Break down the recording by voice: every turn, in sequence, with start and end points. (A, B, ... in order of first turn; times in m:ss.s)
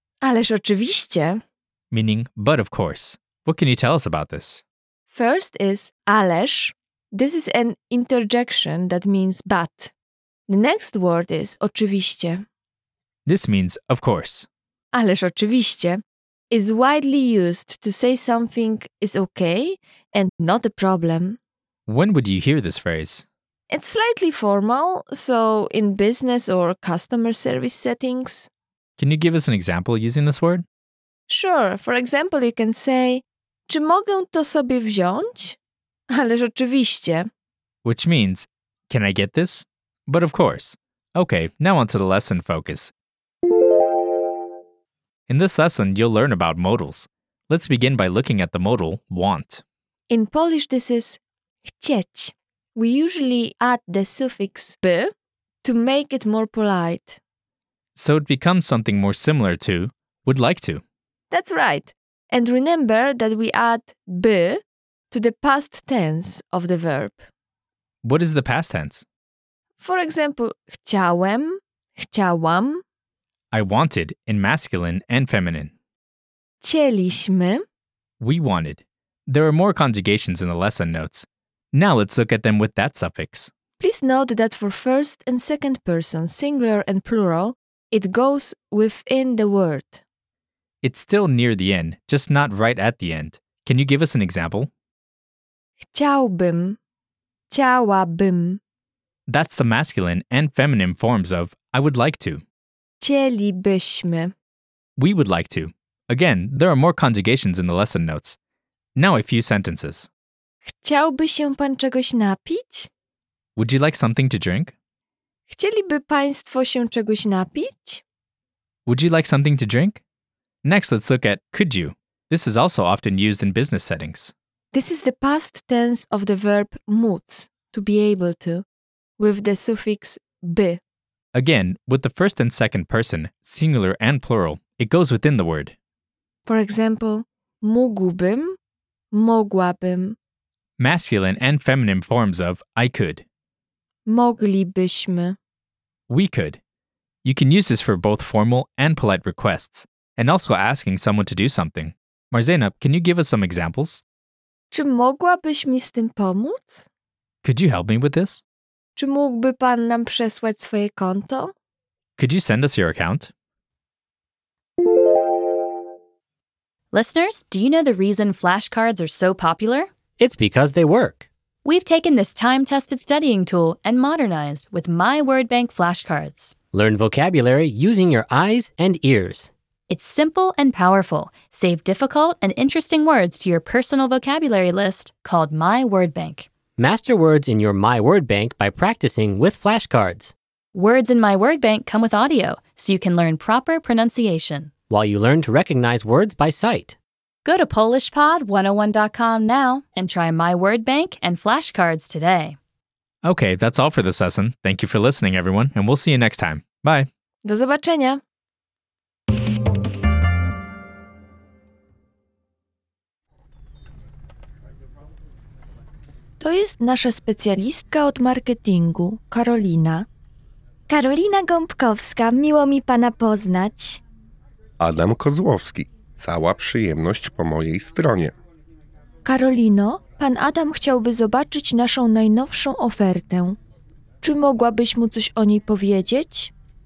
0:00.2-0:01.4 A
0:01.9-0:04.6 B
0:05.1-0:09.9 A
0:10.5-0:12.4 A
0:13.3-0:14.5 B
0:14.9-0:21.4 A
0:21.9-0:23.2 B
0:23.7-0:28.5 A
0:29.0-0:30.6 B
0:31.3-0:35.6 A
0:36.1-0:37.3 A
0:37.8-0:42.9 B
0:45.3-0:49.6 B
0:50.1-0:55.1 A
0:55.6-0:57.2 A
0:58.0-1:00.8 B
1:01.3-1:07.3 A
1:08.0-1:09.0 B
1:09.8-1:12.8 A
1:13.5-1:15.7 B
1:16.6-1:17.6 A
1:18.2-1:23.5 B
1:23.8-1:30.0 A
1:30.8-1:34.7 B
1:35.8-1:36.8 A
1:37.5-1:38.6 A
1:39.3-1:42.4 B
1:43.0-1:44.3 A
1:45.0-1:48.4 B
1:49.0-1:50.1 B
1:50.6-1:52.9 A
1:53.6-1:54.7 B
1:55.5-1:58.0 A
1:58.9-2:00.0 B
2:00.6-2:04.3 B
2:04.7-2:08.6 A
2:09.2-2:10.8 A
2:11.4-2:15.7 B
2:16.4-2:18.6 A
2:19.1-2:20.2 A
2:20.8-2:23.2 B
2:24.1-2:25.4 A
2:26.1-2:26.6 B
2:27.2-2:34.0 B
2:34.7-2:36.8 A
2:37.4-2:38.4 B
2:39.0-2:41.5 A
2:42.2-2:43.3 B
2:46.9-2:49.9 C
2:50.2-2:51.3 D
2:51.6-2:56.6 C
2:56.7-2:59.5 D
2:59.9-3:06.5 C
3:06.8-3:10.4 D
3:10.7-3:14.7 C
3:14.9-3:17.0 D
3:17.4-3:22.6 C
3:23.2-3:27.1 B
3:27.4-3:28.2 A
3:36.4-3:40.1 A
3:40.9-3:44.0 E
3:44.8-3:48.3 F
3:49.2-3:53.6 A
3:54.2-3:56.5 A